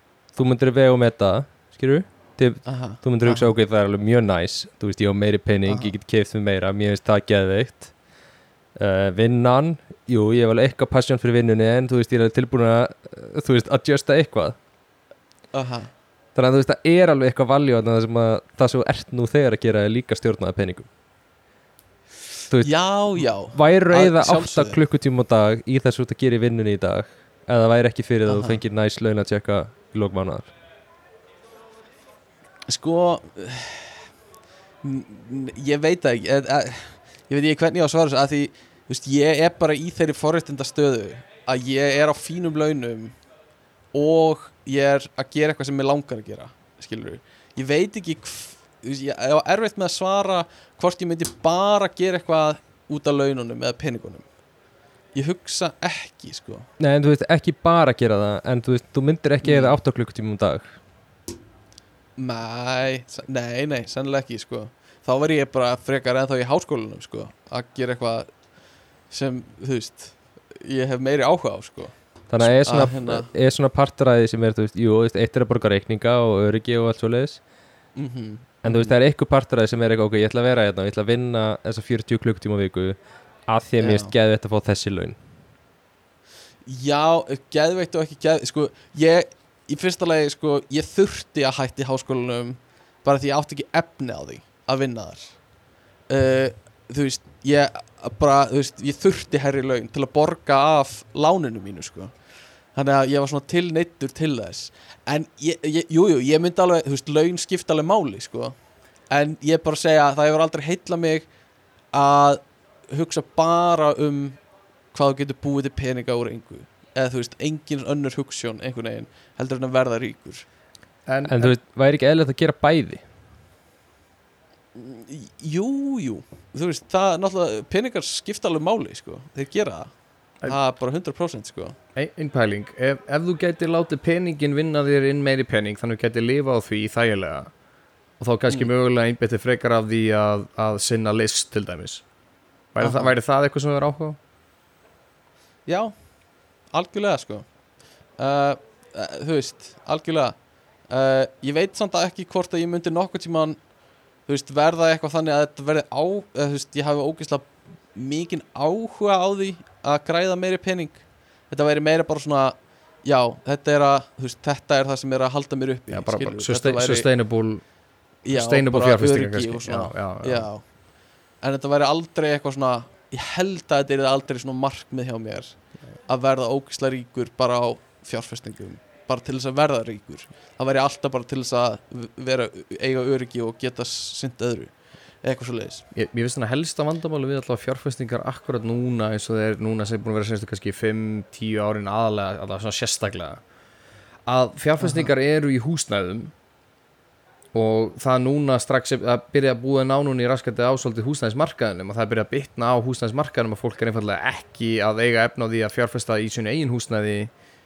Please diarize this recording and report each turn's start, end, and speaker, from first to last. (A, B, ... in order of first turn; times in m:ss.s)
0:00.4-0:07.9 A
0:02.6-0:03.5 B
0:05.6-0:05.9 B
0:08.8-0:14.6 A
0:15.5-0:15.9 B
0:16.4-0:20.9 A
0:22.5-0:30.5 A
0:22.6-0:24.8 B
0:28.3-0:28.6 B
0:32.7-0:34.0 B
0:34.8-0:43.2 B
0:43.9-0:54.3 B
0:55.2-0:56.6 B
0:56.8-1:00.7 A
0:59.4-0:59.7 B
1:02.2-1:08.3 B
1:09.1-1:13.3 B
1:12.3-1:17.4 A
1:18.0-1:19.0 B
1:18.6-1:25.2 A
1:23.8-1:24.1 B
1:26.6-1:35.4 B
1:36.1-1:42.1 B
1:42.7-1:48.6 B
1:49.1-1:51.3 B
1:51.9-1:54.4 B
1:54.9-2:00.4 B
2:01.1-2:01.5 C
2:01.2-2:03.0 A
2:04.7-2:09.9 B
2:10.4-2:11.8 B
2:12.0-2:17.5 C
2:18.2-2:22.0 C
2:22.7-2:24.2 C
2:22.8-2:23.1 B
2:25.7-2:25.9 B
2:26.7-2:27.5 B
2:28.2-2:30.4 B
2:30.9-2:33.6 B
2:34.3-2:47.1 B
2:45.9-2:47.6 C
2:48.2-2:50.6 B
2:48.3-2:50.5 C
2:51.4-3:05.8 B
3:05.9-3:13.4 C
3:14.3-3:16.3 C
3:14.8-3:15.1 B
3:17.5-3:27.3 C